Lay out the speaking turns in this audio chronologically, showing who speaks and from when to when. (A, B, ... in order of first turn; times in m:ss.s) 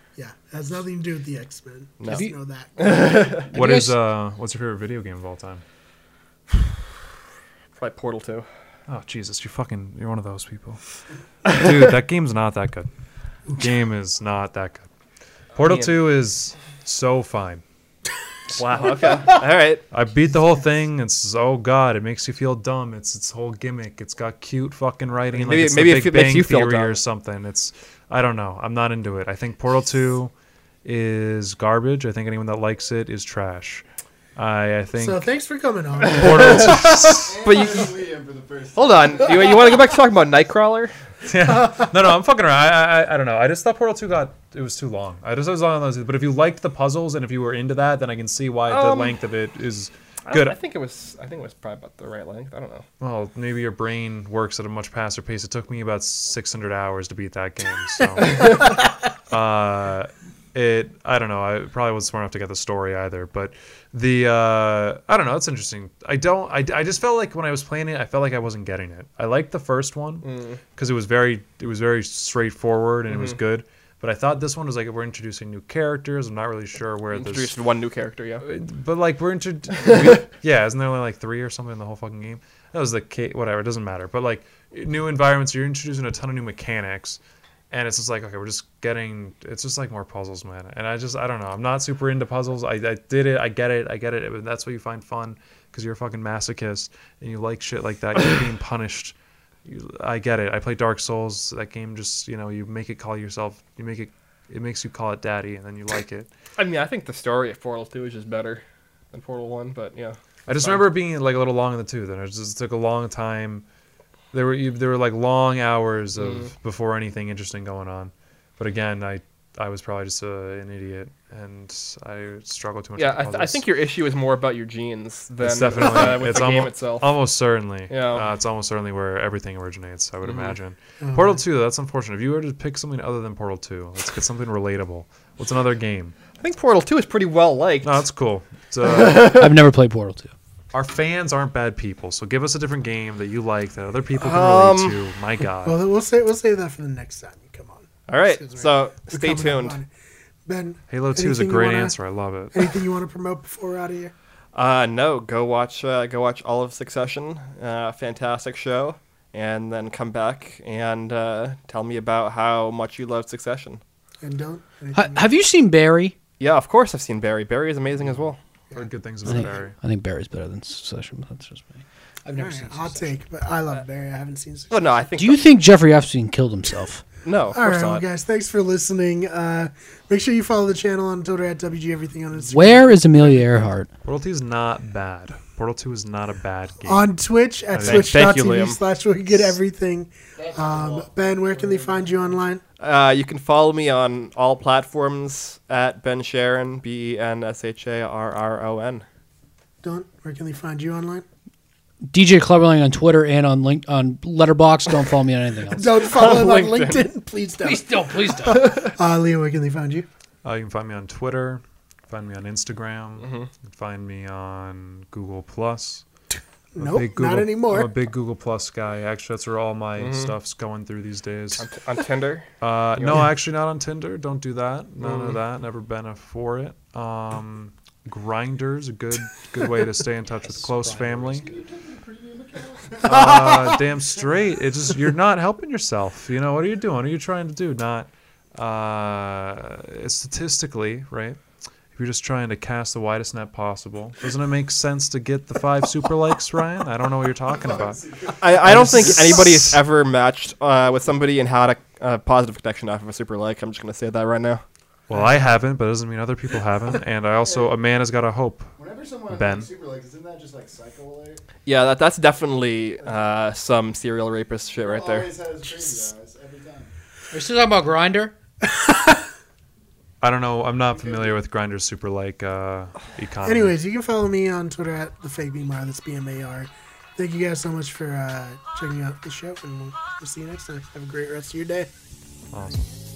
0:00.2-0:03.3 A
0:02.0-0:03.5 B
0:02.1-0:02.3 C
0:03.5-0:04.0 C
0:03.5-0:05.6 D
0:07.8-0:08.5 B
0:08.9-0:10.8 D
0:11.4-0:12.9 D
0:13.5-0:14.9 D
0:15.6-0:16.0 B
0:15.6-0:17.6 D
0:18.5-0:19.8 B
0:19.9-0:30.3 D
0:25.3-0:27.0 B
0:30.8-0:33.8 D
0:34.4-0:35.2 D
0:35.0-0:36.8 A
0:36.0-0:37.4 D
0:36.1-0:38.0 B
0:37.1-0:39.9 E
0:38.8-0:40.9 B
0:41.2-0:50.6 D
0:48.7-0:49.2 B
0:50.3-0:52.9 B
0:53.0-1:17.6 D
0:58.2-0:58.6 B
1:10.2-1:10.6 B
1:13.1-1:13.4 B
1:17.1-1:18.4 B
1:18.4-1:27.2 D
1:19.8-1:20.3 B
1:27.7-1:46.3 D
1:46.6-1:50.8 B
1:50.5-1:53.6 D
1:54.3-2:03.6 D
1:56.2-1:56.5 B
2:03.0-2:07.1 B
2:05.4-2:16.2 D
2:07.9-2:08.2 B
2:10.2-2:10.6 B
2:11.0-2:11.4 A
2:16.4-2:18.0 B
2:17.8-2:19.4 D
2:18.8-2:19.5 B
2:19.4-2:20.3 C
2:20.7-2:25.8 D
2:24.2-2:25.0 B
2:25.6-2:29.9 A
2:28.1-2:29.8 B
2:30.4-2:32.0 A
2:30.9-2:32.6 D
2:32.5-2:34.1 A
2:34.6-2:43.8 B
2:44.2-2:45.3 A
2:45.0-2:46.2 C
2:46.4-2:48.4 B
2:48.7-2:49.8 D
2:49.2-2:53.2 C
2:52.3-2:54.8 A
2:54.7-2:55.4 B
2:55.2-2:57.0 C
2:57.2-2:58.0 B
2:57.5-3:03.3 A
3:02.5-3:03.9 C
3:04.0-3:07.1 D
3:06.8-3:12.6 A
3:07.7-3:08.2 D
3:07.8-3:08.8 B
3:10.4-3:12.4 E
3:12.8-3:19.0 B
3:19.8-3:21.3 A
3:22.1-3:26.0 C
3:25.7-3:30.1 A
3:26.0-3:27.1 B
3:27.6-3:28.7 C
3:28.5-3:28.9 B
3:30.4-3:36.0 D
3:33.2-3:33.5 B
3:36.8-3:37.9 A
3:36.8-3:41.7 D
3:40.0-3:40.3 B
3:41.6-3:43.3 B
3:42.6-3:51.5 D
3:45.0-3:45.4 B
3:50.4-3:51.5 C
3:51.4-3:53.3 E
3:53.0-4:01.4 D
4:02.0-4:08.0 D
4:07.5-4:08.7 E
4:08.4-4:14.6 B
4:08.6-4:09.8 D
4:15.1-4:18.8 D
4:17.4-4:17.8 E
4:18.8-4:21.4 E
4:19.3-4:19.7 D
4:21.7-4:25.4 B
4:24.8-4:26.9 E
4:27.3-4:28.4 C
4:28.6-4:29.2 A
4:30.2-4:33.7 D
4:30.9-4:31.4 E
4:33.4-4:41.9 A
4:42.5-4:42.9 D